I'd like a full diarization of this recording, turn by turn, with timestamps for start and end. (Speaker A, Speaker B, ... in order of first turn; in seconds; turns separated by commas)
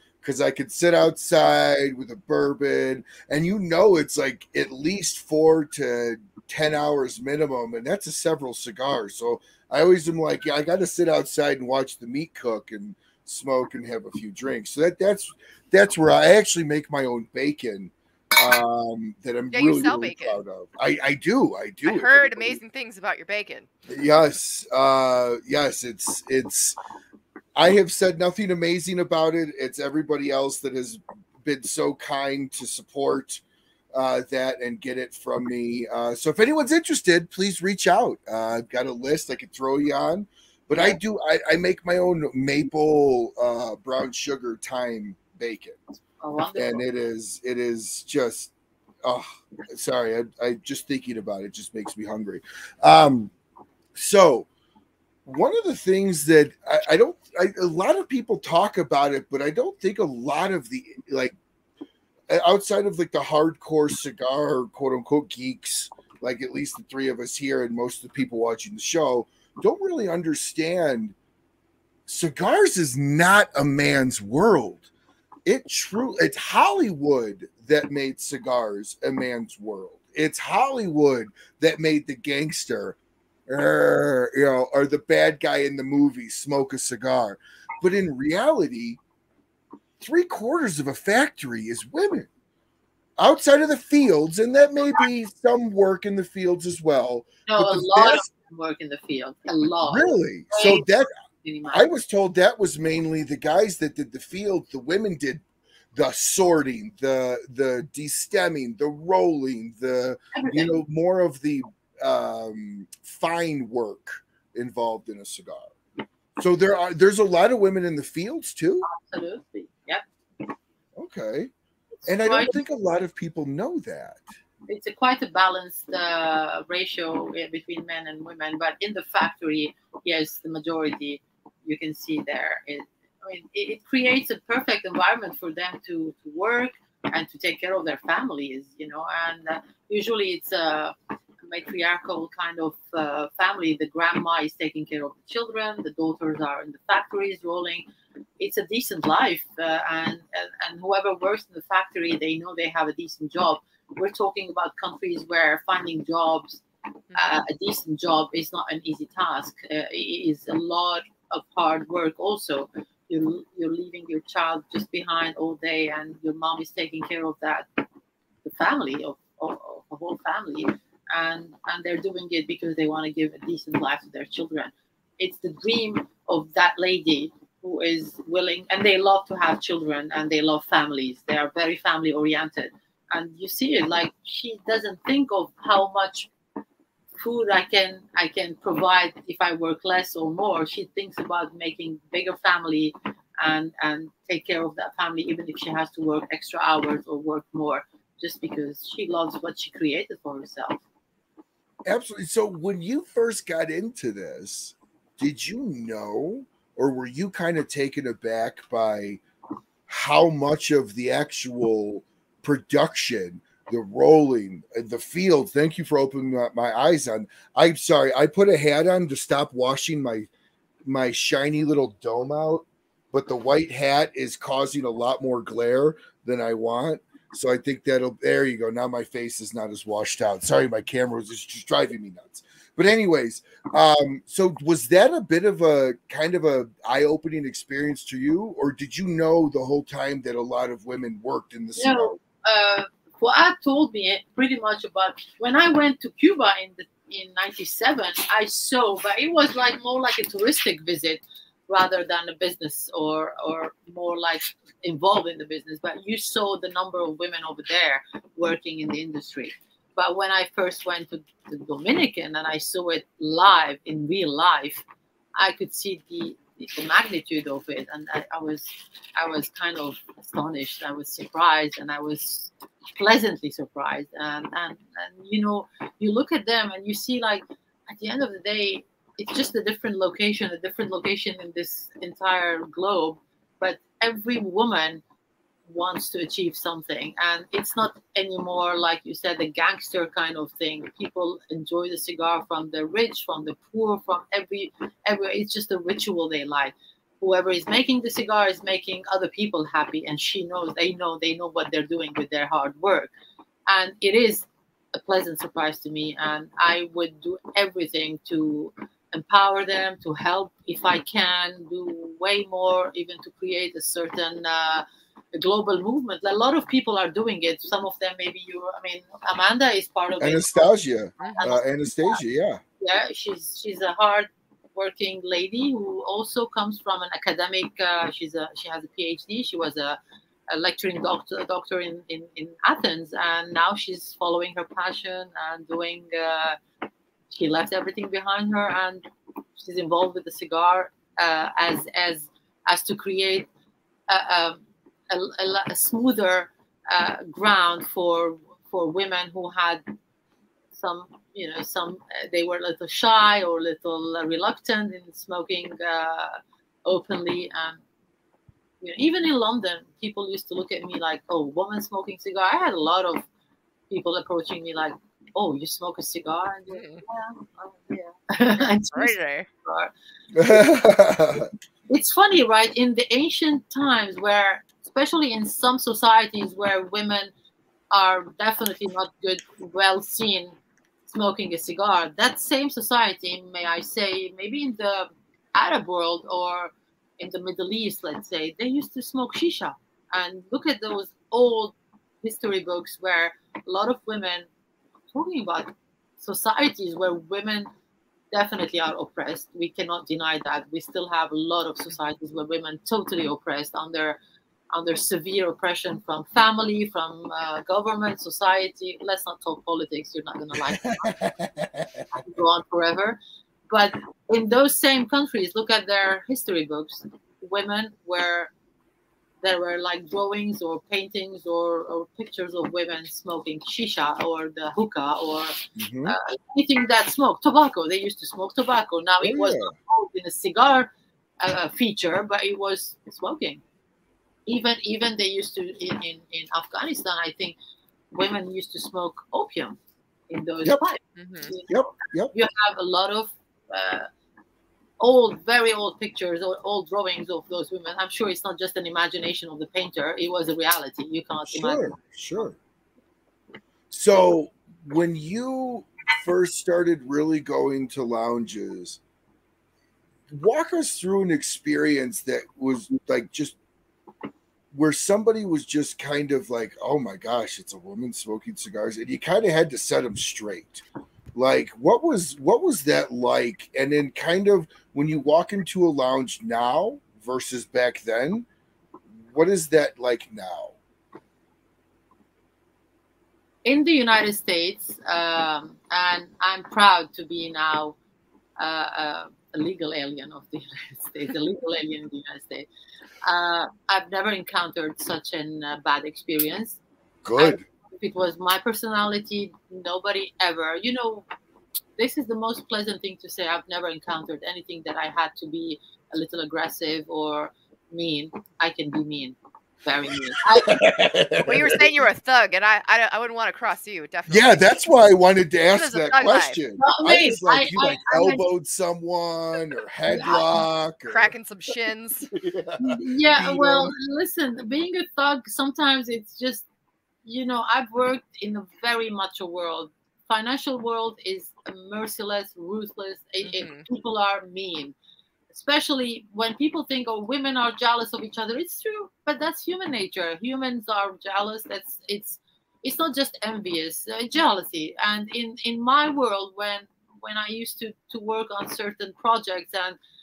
Speaker A: 0.2-22.6, Speaker B: 19.5-20.4, Speaker B: 21.8-23.7, Speaker A: 23.9-26.8, Speaker A: 27.6-33.4, Speaker A: 33.9-45.8, Speaker C: 46.2-46.8, Speaker A: 46.5-48.5, Speaker A: 49.0-53.3, Speaker A: 53.9-54.5, Speaker A: 55.2-61.3, Speaker A: 62.3-71.1, Speaker A: 72.1-74.8, Speaker A: 75.5-83.0, Speaker A: 83.5-89.0, Speaker A: 90.0-92.3, Speaker A: 93.2-98.2, Speaker C: 97.5-100.9, Speaker A: 99.8-101.1, Speaker C: 101.4-101.8, Speaker A: 101.7-105.4, Speaker A: 105.9-115.7, Speaker C: 110.3-110.7, Speaker A: 116.4-118.9, Speaker C: 118.8-120.1, Speaker A: 121.0-121.5, Speaker A: 122.0-124.2, Speaker C: 122.1-122.5, Speaker C: 124.7-140.9, Speaker C: 141.4-147.8, Speaker C: 148.4-156.6, Speaker C: 157.1-167.8, Speaker C: 168.4-186.3, Speaker C: 187.2-200.8, Speaker A: 201.9-209.2, Speaker A: 209.9-220.3, Speaker A: 220.8-242.2, Speaker C: 241.8-264.8, Speaker C: 265.4-285.0, Speaker C: 285.7-303.1, Speaker C: 303.7-320.7, Speaker A: 320.2-322.6, Speaker B: 321.2-321.5, Speaker C: 321.4-322.2, Speaker C: 322.8-330.0, Speaker C: 330.5-336.6, Speaker C: 337.3-343.5, Speaker C: 344.1-349.8, Speaker C: 350.7-357.8, Speaker C: 358.8-363.2, Speaker C: 363.9-369.9, Speaker B: 366.7-367.0, Speaker B: 368.6-369.5, Speaker A: 370.3-371.5, Speaker C: 371.9-377.3, Speaker C: 377.9-380.6, Speaker C: 381.1-394.5, Speaker C: 395.1-397.7, Speaker C: 398.3-404.2, Speaker C: 404.7-411.1, Speaker A: 410.8-412.1, Speaker C: 412.1-413.2, Speaker C: 413.7-418.5, Speaker C: 419.4-433.6, Speaker A: 425.8-426.1, Speaker A: 429.2-429.7, Speaker C: 434.5-437.6, Speaker C: 438.1-439.8, Speaker C: 440.3-441.8, Speaker A: 440.6-440.9, Speaker B: 441.2-441.5, Speaker A: 441.7-442.3, Speaker C: 442.3-444.1, Speaker C: 445.0-452.4, Speaker A: 451.4-452.6, Speaker A: 453.9-459.0, Speaker A: 460.3-463.5, Speaker A: 464.7-470.8, Speaker A: 471.3-478.4, Speaker A: 479.2-480.7, Speaker C: 483.6-487.9, Speaker C: 488.6-492.7, Speaker C: 493.2-496.8, Speaker A: 497.2-497.6, Speaker C: 497.4-501.2, Speaker C: 502.0-510.8, Speaker A: 510.5-512.0, Speaker B: 511.4-514.6, Speaker A: 514.3-521.3, Speaker B: 515.7-516.6, Speaker C: 516.8-518.4, Speaker C: 520.1-520.5, Speaker B: 521.1-522.3, Speaker A: 522.3-523.9, Speaker C: 522.8-526.6, Speaker C: 527.2-534.9, Speaker B: 533.4-533.9, Speaker C: 535.5-550.0